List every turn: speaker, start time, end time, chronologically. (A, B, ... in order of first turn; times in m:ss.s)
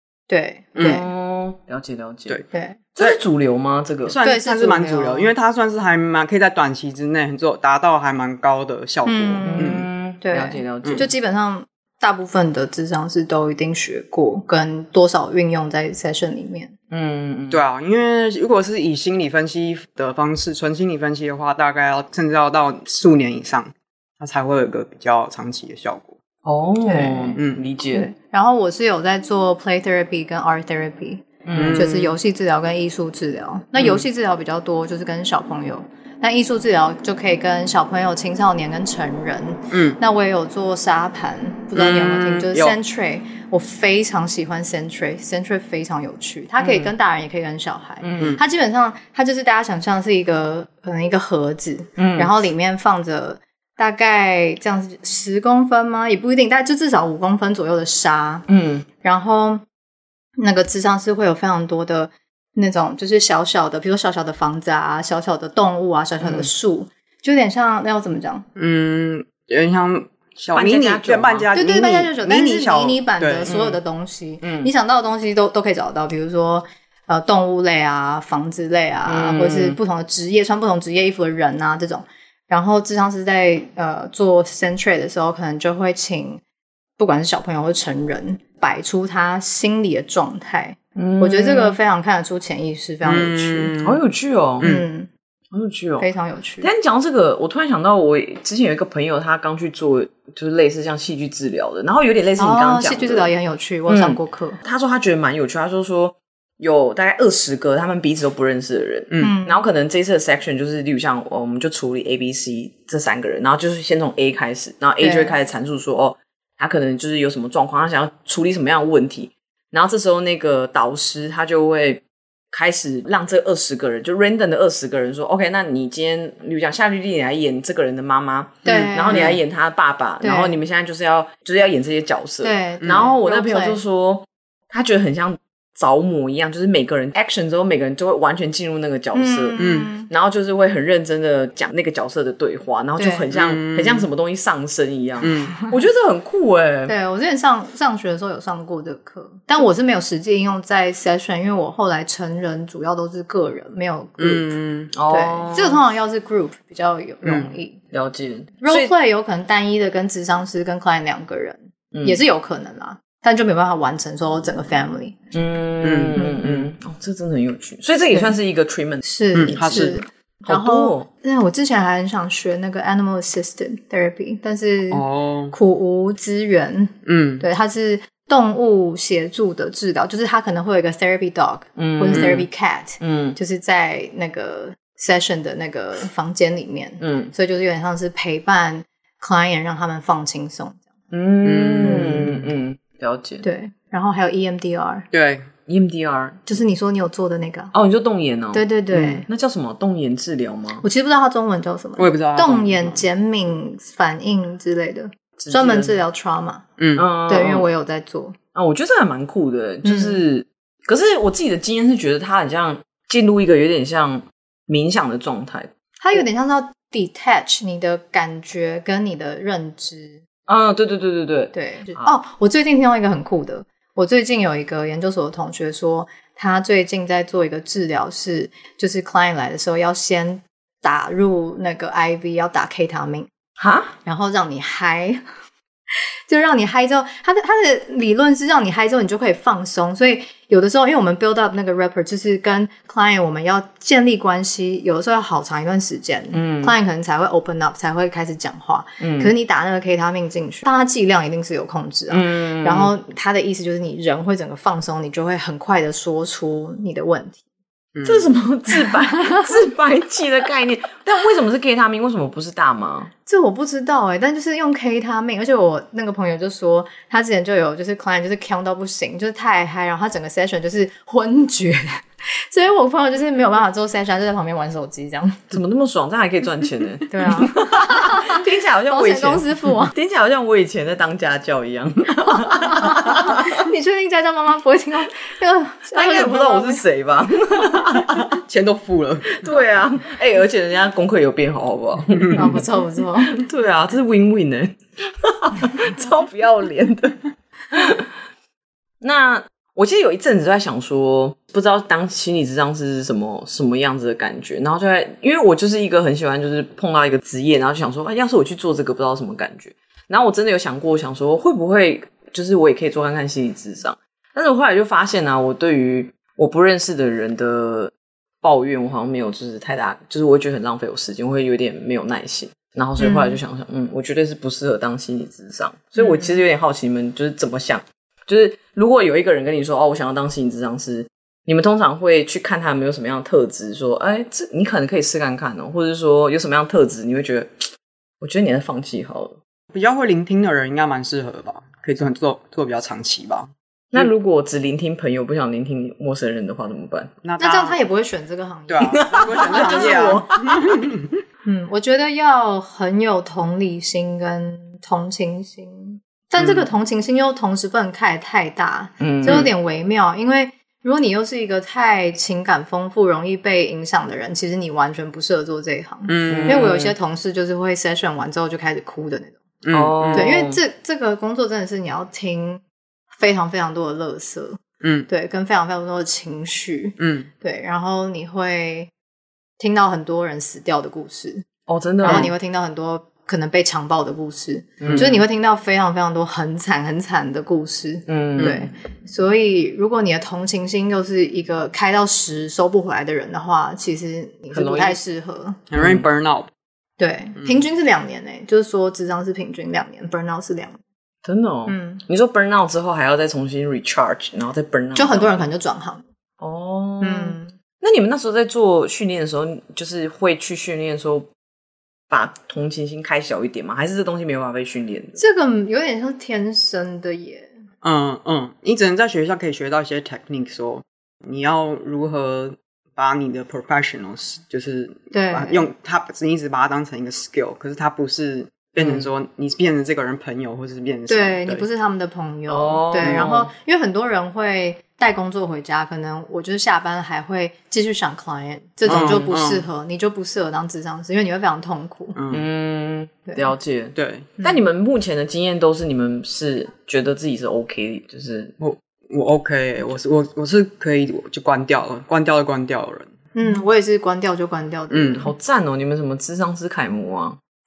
0:00.3-0:01.0 A
0:00.8-0:01.0 B
0:00.8-0:02.4 C
0:02.5-0:02.8 A
0:03.0-0:04.2 C
0:04.1-0:09.9 B
0:04.2-0:05.3 A
0:09.1-0:16.7 A
0:09.5-0:11.1 C
0:16.9-0:17.6 C
0:17.5-0:26.2 B
0:26.4-0:28.1 C
0:26.8-0:27.4 A
0:27.4-0:27.6 B
0:27.9-0:58.5 A
0:31.5-0:31.9 C
0:31.6-0:32.1 B
0:39.7-0:40.0 B
0:41.8-0:42.1 C
0:41.8-0:42.8 B
0:46.6-0:46.9 C
0:48.0-0:48.4 C
0:52.0-0:52.3 C
0:58.5-0:58.9 C
0:59.0-0:59.6 A
1:00.4-1:08.4 A
1:08.6-1:13.5 B
1:10.5-1:11.5 C
1:11.5-1:26.4 A
1:13.5-1:13.8 C
1:14.4-1:14.7 C
1:19.1-1:19.8 C
1:27.0-1:33.7 A
1:31.0-1:31.8 C
1:33.0-1:34.0 B
1:33.8-1:34.7 C
1:34.6-1:35.1 A
1:35.5-1:36.1 C
1:36.0-1:36.7 A
1:36.6-1:43.3 C
1:42.4-1:44.6 A
1:43.9-2:26.9 C
1:49.1-1:49.4 B
1:49.2-1:49.6 A
1:55.0-1:55.4 A
2:08.6-2:09.4 A
2:08.6-2:09.4 B
2:10.2-2:10.6 A
2:12.4-2:13.8 A
2:19.1-2:20.1 A
2:19.6-2:19.9 B
2:23.0-2:23.3 A
2:23.3-2:24.1 B
2:25.2-2:25.6 B
2:26.9-2:34.5 A
2:34.2-2:34.9 B
2:34.9-2:35.8 C
2:35.1-2:37.8 A
2:37.2-2:37.5 B
2:37.9-2:38.9 C
2:38.6-2:45.2 A
2:41.9-2:42.2 C
2:45.3-2:49.9 C
2:45.8-2:46.7 B
2:46.2-2:46.4 A
2:49.0-3:10.8 A
2:49.4-2:50.0 B
2:50.5-2:51.1 C
2:54.9-2:55.5 B
2:57.1-2:57.4 B
3:01.8-3:02.5 C
3:02.1-3:02.4 B
3:03.0-3:03.4 C
3:07.0-3:07.3 C
3:11.1-3:13.4 C
3:11.4-3:12.4 B
3:11.8-3:12.3 A
3:13.4-3:15.1 A
3:15.1-3:15.5 B
3:15.7-3:16.4 C
3:16.5-3:17.7 A
3:17.7-3:20.8 C
3:18.5-3:19.3 A
3:20.8-3:26.6 A
3:22.0-3:23.0 B
3:25.4-3:26.0 C
3:26.8-3:27.1 B
3:27.0-3:27.7 C
3:27.3-3:28.4 A
3:28.6-3:36.2 C
3:29.8-3:30.2 A
3:36.0-3:40.2 A
3:40.5-3:42.2 C
3:41.5-3:53.3 A
3:53.6-3:53.9 C
3:54.0-3:55.2 A
3:56.3-4:17.4 A
4:06.3-4:06.8 C
4:09.0-4:09.3 C
4:12.1-4:12.9 C
4:18.0-4:18.3 B
4:18.0-4:23.1 C
4:23.3-4:35.5 A
4:35.5-4:43.6 C
4:37.1-4:39.9 A
4:42.4-4:46.8 A
4:45.9-4:48.4 C
4:48.3-4:49.5 B
4:49.3-4:52.6 C
4:52.1-4:52.4 B
4:52.4-4:53.4 A
4:53.2-4:57.2 C
4:57.7-4:58.1 C
4:59.0-5:37.7 C
5:23.0-5:23.4 A
5:26.0-5:26.4 A
5:38.2-5:39.4 C
5:39.7-5:44.1 B
5:43.9-5:47.1 C
5:47.2-5:47.8 B
5:47.4-5:50.2 A
5:48.7-5:51.2 B
5:48.8-5:50.8 C
5:51.4-6:09.4 A
5:56.4-5:56.7 B
5:59.0-5:59.5 C
5:59.2-5:59.5 B
6:06.1-6:06.7 B
6:06.3-6:06.9 C
6:09.6-6:10.3 B
6:09.7-6:10.6 C
6:10.1-6:12.6 A
6:13.2-6:18.9 A
6:14.8-6:15.1 B
6:17.0-6:17.3 B
6:19.6-6:21.4 A
6:21.7-6:22.3 C
6:22.0-6:35.6 A
6:22.1-6:22.3 B
6:24.8-6:25.2 C
6:24.8-6:25.1 B
6:28.1-6:28.6 C
6:34.5-6:35.0 C
6:35.7-6:36.5 B
6:35.8-6:36.1 C
6:37.0-6:40.8 A
6:41.2-6:45.4 C
6:41.7-6:42.0 A
6:45.0-6:46.0 A
6:46.4-6:51.3 C
6:47.0-6:47.5 A
6:52.1-6:55.2 C
6:55.2-6:57.5 A
6:57.8-7:11.6 B
7:05.1-7:05.6 A
7:08.8-7:09.1 C
7:11.1-7:22.2 A
7:12.5-7:13.5 C
7:13.0-7:13.3 B
7:18.9-7:19.6 B
7:18.9-7:19.3 C
7:22.2-7:22.5 B
7:22.3-7:28.5 C
7:23.3-7:23.5 A
7:24.0-7:24.3 B
7:28.6-7:33.1 B
7:33.3-7:35.3 A
7:34.9-7:35.2 B
7:35.2-7:37.4 C